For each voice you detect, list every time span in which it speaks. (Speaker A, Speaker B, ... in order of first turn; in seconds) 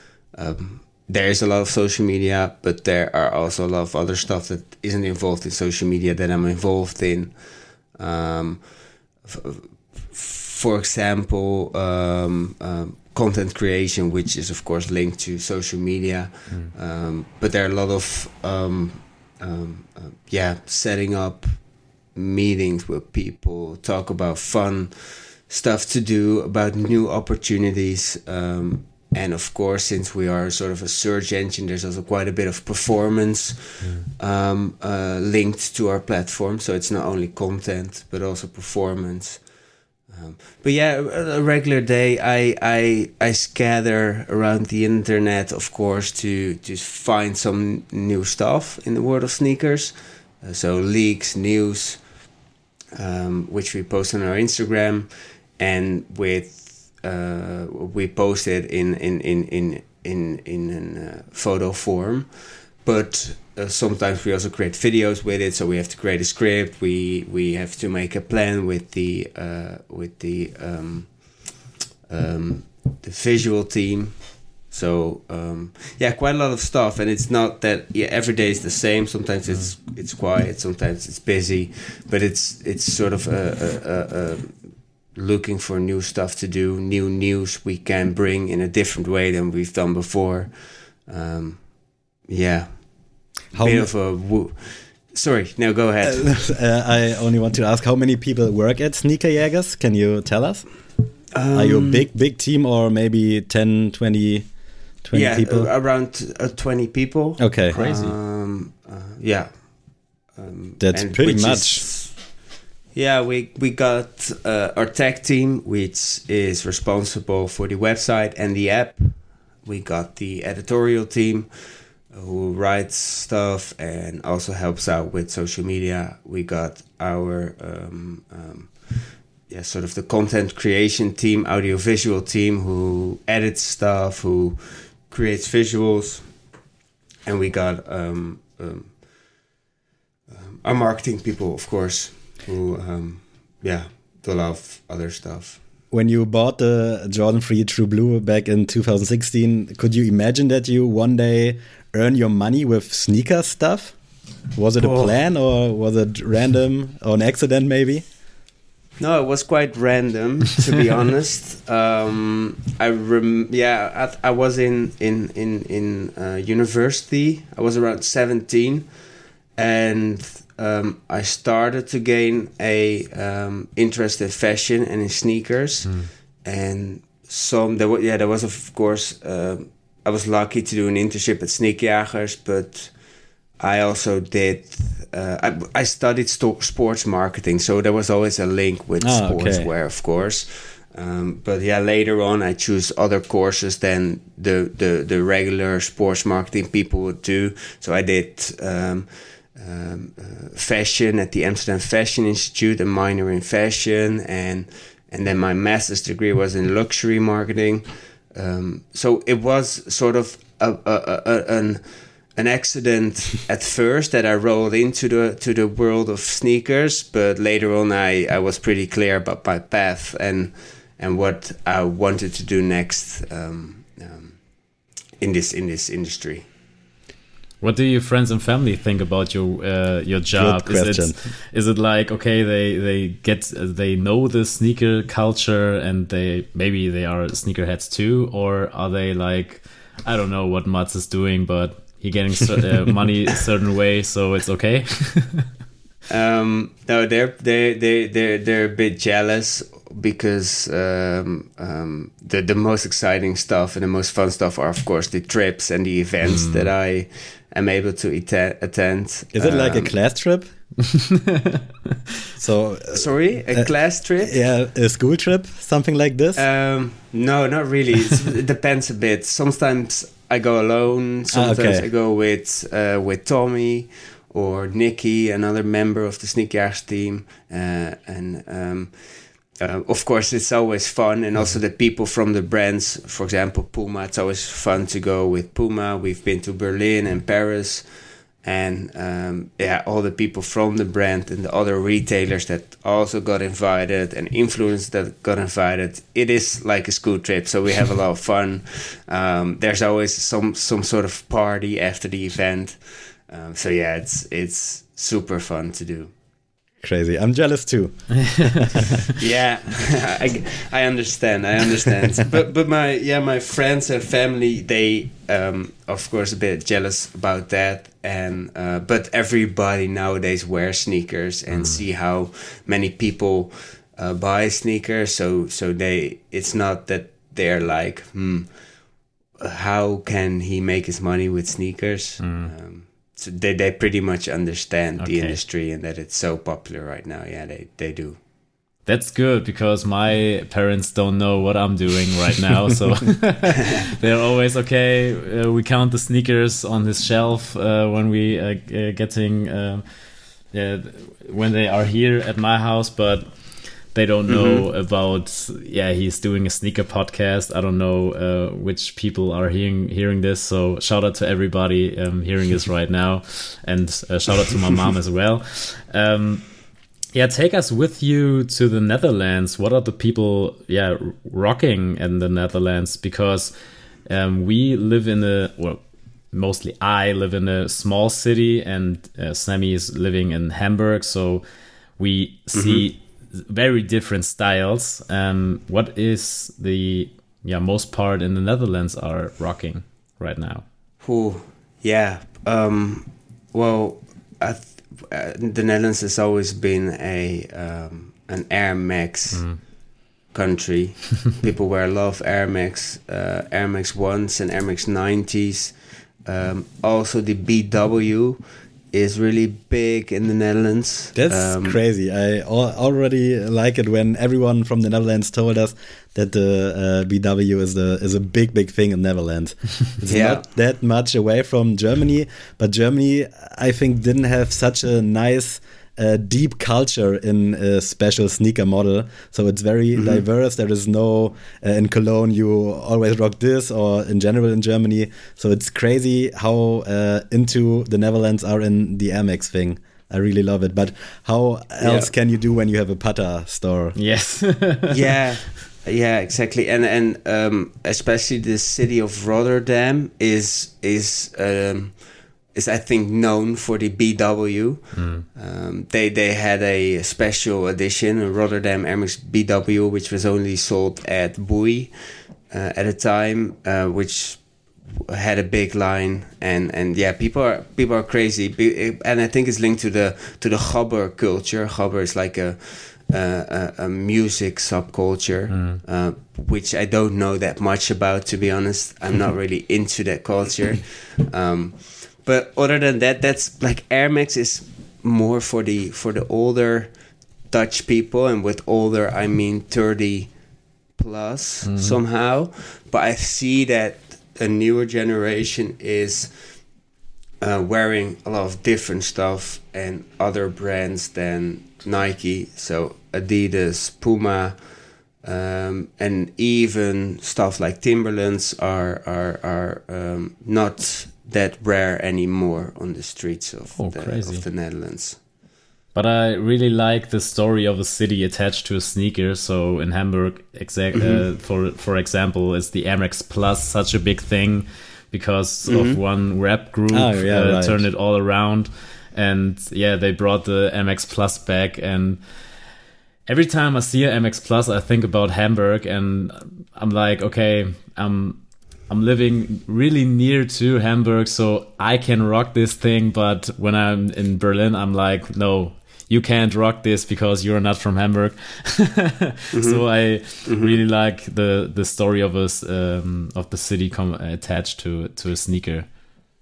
Speaker A: 0.3-39.5, 40.0-52.1, 52.9-96.3, 101.3-102.1, 105.1-112.3, 112.9-136.4, 137.2-139.0, 140.3-145.6, 154.8-155.2, 159.0-169.0, 169.5-224.4, 225.2-226.4, 246.1-259.9, 262.9-264.4, 266.4-306.1, 309.1-328.7, 329.3-338.2, 354.3-354.6, 382.5-382.8, 391.0-399.6, 400.3-411.8, 420.1-420.4, 429.9-430.2, 441.8-442.1, 444.9-490.4, 490.9-496.6, 497.4-515.2, 520.9-521.2, 525.7-526.0, 549.5-550.8
Speaker B: 93.5-93.9, 96.0-100.7, 101.5-104.5, 105.0-105.7, 107.4-107.7, 110.8-111.9, 145.9-154.0, 154.5-158.0, 189.0-189.7, 230.3-231.2, 259.3-260.4, 262.4-263.7, 264.2-266.4, 271.3-271.9, 306.8-308.7, 411.1-443.9, 526.9-527.9
Speaker C: 107.7-108.2, 175.8-176.1, 227.6-245.5, 256.3-256.6, 261.1-261.6, 321.5-321.8, 332.2-332.5, 335.0-335.4, 338.9-349.8, 350.5-353.3, 353.9-366.5, 367.1-373.5, 374.1-375.8, 376.3-381.4, 382.0-390.6, 399.3-399.6, 443.9-445.0, 454.9-455.2, 475.5-475.8, 491.6-492.0, 513.8-514.4, 515.9-532.2, 533.3-555.9